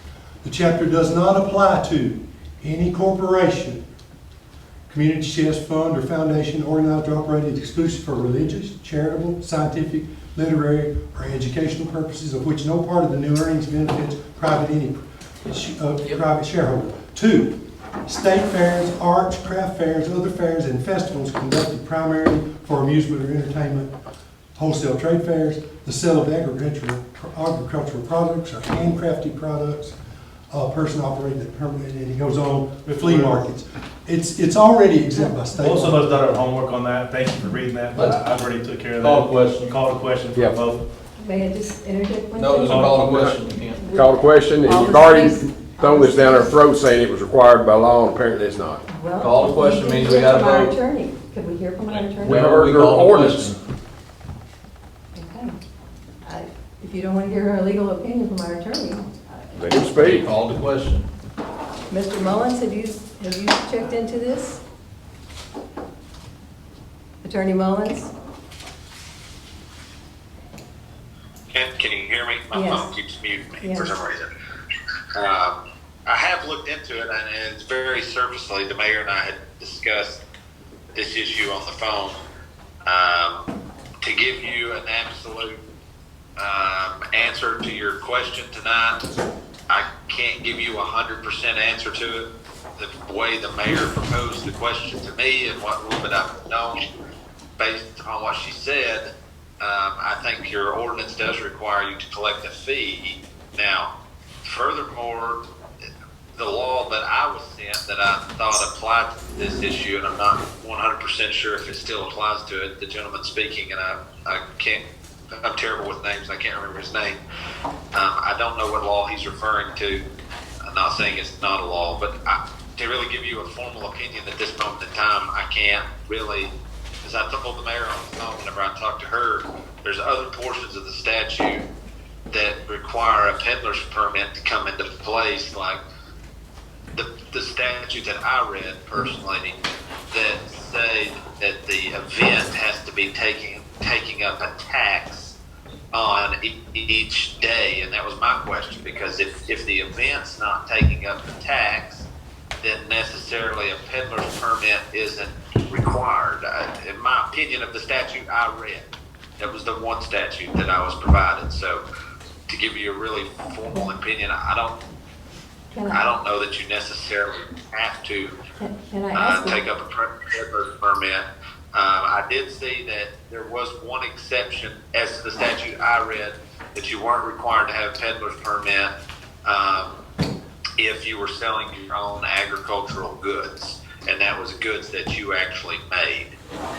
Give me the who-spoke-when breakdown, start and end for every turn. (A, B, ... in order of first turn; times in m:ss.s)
0:00.4-0:03.8 A
0:04.9-0:23.9 A
0:24.6-0:29.9 A
0:30.5-0:36.2 A
0:33.0-0:33.4 B
0:35.6-0:40.9 B
0:39.0-0:39.8 C
0:41.2-0:42.9 D
0:42.4-0:44.0 C
0:42.7-0:43.1 B
0:43.7-0:46.6 D
0:43.9-0:48.8 E
0:48.9-0:52.4 D
0:49.2-0:50.8 C
0:51.9-0:53.6 C
0:52.2-0:53.5 E
0:55.2-0:55.6 D
0:56.2-0:59.4 D
0:59.6-1:00.2 E
0:59.8-1:01.1 C
1:01.9-1:04.6 D
1:07.2-1:08.1 D
1:11.5-1:14.3 F
1:12.5-1:12.9 D
1:13.6-1:13.9 D
1:15.2-1:20.2 F
1:20.9-1:22.2 F
1:22.9-1:23.5 F
1:24.0-1:25.6 F
1:26.4-1:29.0 F
1:29.7-1:32.3 F
1:32.8-1:36.8 F
1:37.6-1:39.1 F
1:39.6-1:43.9 F
1:44.4-1:45.4 F
1:46.4-1:54.8 F
1:55.4-1:57.2 F
1:57.9-2:00.0 F
2:00.7-2:06.5 F
2:07.0-2:11.6 F
2:12.3-2:15.8 F
2:16.9-2:19.5 F
2:20.1-2:25.4 F
2:25.9-2:32.1 F
2:32.6-2:38.8 F
2:39.4-2:41.8 F
2:42.5-2:44.7 F
2:45.7-2:46.0 D
2:45.9-2:48.4 F
2:48.6-2:49.6 D
2:49.1-2:58.9 F
2:59.4-3:00.0 F
3:00.8-3:06.3 F